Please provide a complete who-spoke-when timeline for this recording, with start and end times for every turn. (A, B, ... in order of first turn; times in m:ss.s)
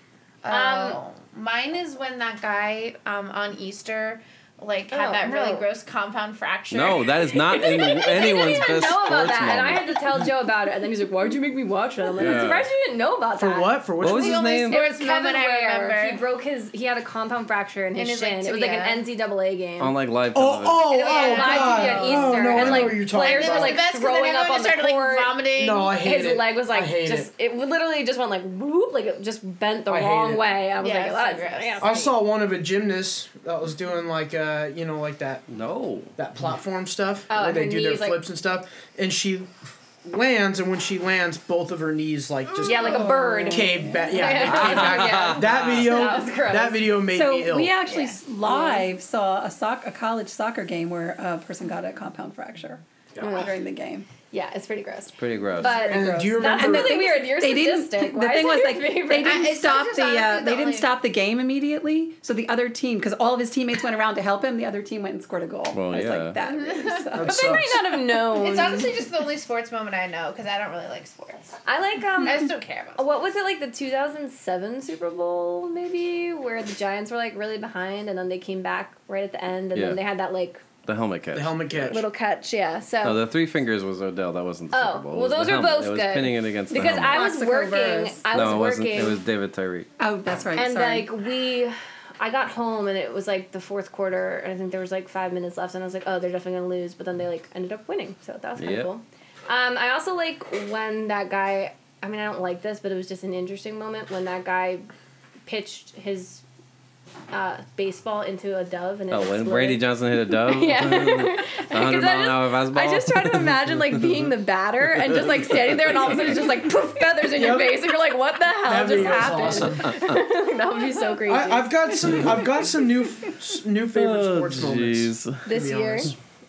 0:00.4-0:08.6 A
0:00.5-0:01.0 B
0:04.9-0:05.7 B
0:06.7-0:09.9 C
0:07.5-0:13.8 B
0:12.2-0:12.7 C
0:13.4-0:14.4 D
0:14.0-0:14.8 C
0:14.0-0:16.2 A
0:14.4-0:19.9 B
0:18.0-0:19.0 A
0:19.8-0:20.9 C
0:20.3-0:23.8 D
0:20.7-0:25.4 B
0:21.0-0:26.0 A
0:22.5-0:23.1 C
0:25.6-0:27.3 D
0:25.9-0:32.1 B
0:29.9-0:30.6 D
0:30.8-0:31.9 A
0:31.8-0:35.4 D
0:35.5-0:36.1 C
0:36.2-0:39.5 D
0:37.3-0:38.2 B
0:40.0-0:47.7 D
0:42.6-0:46.9 B
0:42.6-0:44.1 E
0:44.4-0:46.0 C
0:47.1-0:54.1 E
0:47.9-0:48.2 A
0:48.4-0:48.9 B
0:54.3-0:59.5 B
0:55.1-0:56.0 C
0:55.7-0:57.0 D
0:56.4-1:07.6 E
0:59.2-1:00.9 A
1:05.7-1:06.4 C
1:06.4-1:07.1 A
1:07.1-1:07.8 D
1:07.1-1:09.0 B
1:08.2-1:11.5 A
1:11.6-1:20.6 B
1:12.2-1:13.2 A
1:19.7-1:20.0 C
1:20.8-1:22.0 C
1:21.3-1:22.0 D
1:21.9-1:23.2 B
1:23.0-1:27.3 C
1:24.7-1:29.2 B
1:26.7-1:28.2 E
1:28.3-1:29.9 C
1:30.0-1:31.1 E
1:30.5-1:44.9 B
1:38.6-1:38.9 C
1:45.4-1:46.4 B
1:47.3-2:02.3 B
1:49.1-1:53.5 C
1:57.3-1:57.8 D
1:58.6-2:00.0 D
2:01.3-2:06.1 D
2:03.9-2:05.5 C
2:05.4-2:06.1 B